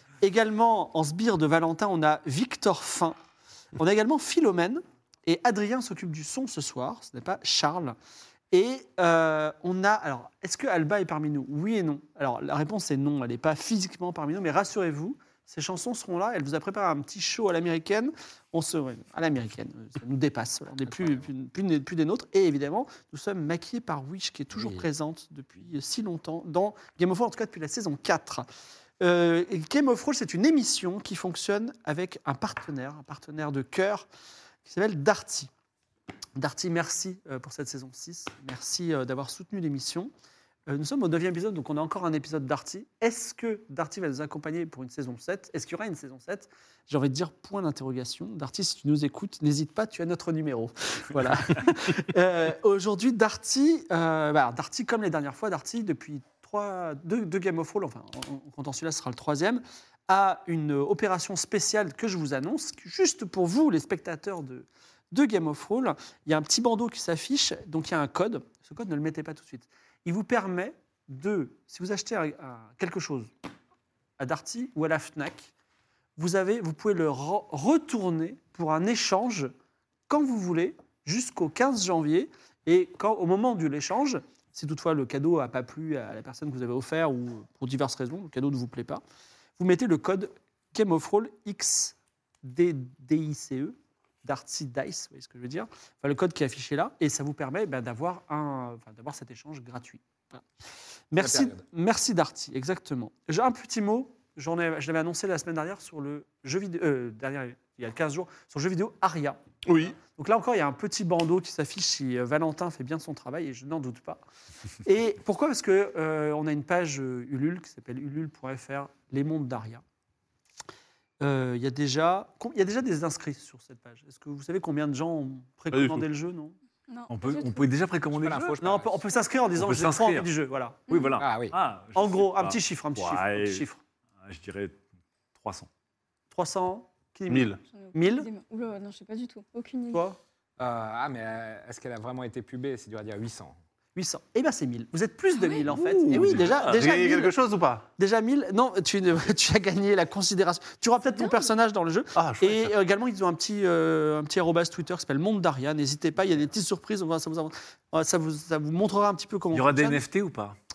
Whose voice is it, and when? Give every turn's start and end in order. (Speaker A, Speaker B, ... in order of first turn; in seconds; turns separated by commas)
Speaker A: 0.2-3.2, Speaker A: 3.8-8.0, Speaker A: 8.5-28.5, Speaker B: 24.6-24.8, Speaker A: 29.0-34.1, Speaker A: 34.6-35.5, Speaker A: 36.4-40.1, Speaker A: 40.7-73.3, Speaker A: 74.2-75.5, Speaker A: 76.2-79.5, Speaker A: 80.1-89.0, Speaker A: 89.6-100.4, Speaker A: 101.1-114.2, Speaker B: 101.2-101.6, Speaker C: 109.7-110.0, Speaker A: 114.8-119.8, Speaker A: 121.2-126.6, Speaker C: 125.7-126.1, Speaker D: 126.9-127.7, Speaker E: 127.1-128.6, Speaker B: 128.2-128.9, Speaker A: 128.6-130.8, Speaker E: 129.6-130.3, Speaker E: 130.9-133.7, Speaker D: 130.9-131.2, Speaker B: 131.2-131.5, Speaker A: 131.9-133.8, Speaker E: 134.2-134.8, Speaker E: 135.4-135.7, Speaker A: 136.3-138.3, Speaker C: 137.3-137.6, Speaker D: 137.7-140.0, Speaker A: 139.9-140.2, Speaker B: 140.6-143.6, Speaker A: 144.0-147.3, Speaker E: 145.7-147.0, Speaker C: 146.1-147.8, Speaker A: 148.0-160.0, Speaker C: 152.2-152.8, Speaker E: 159.5-160.6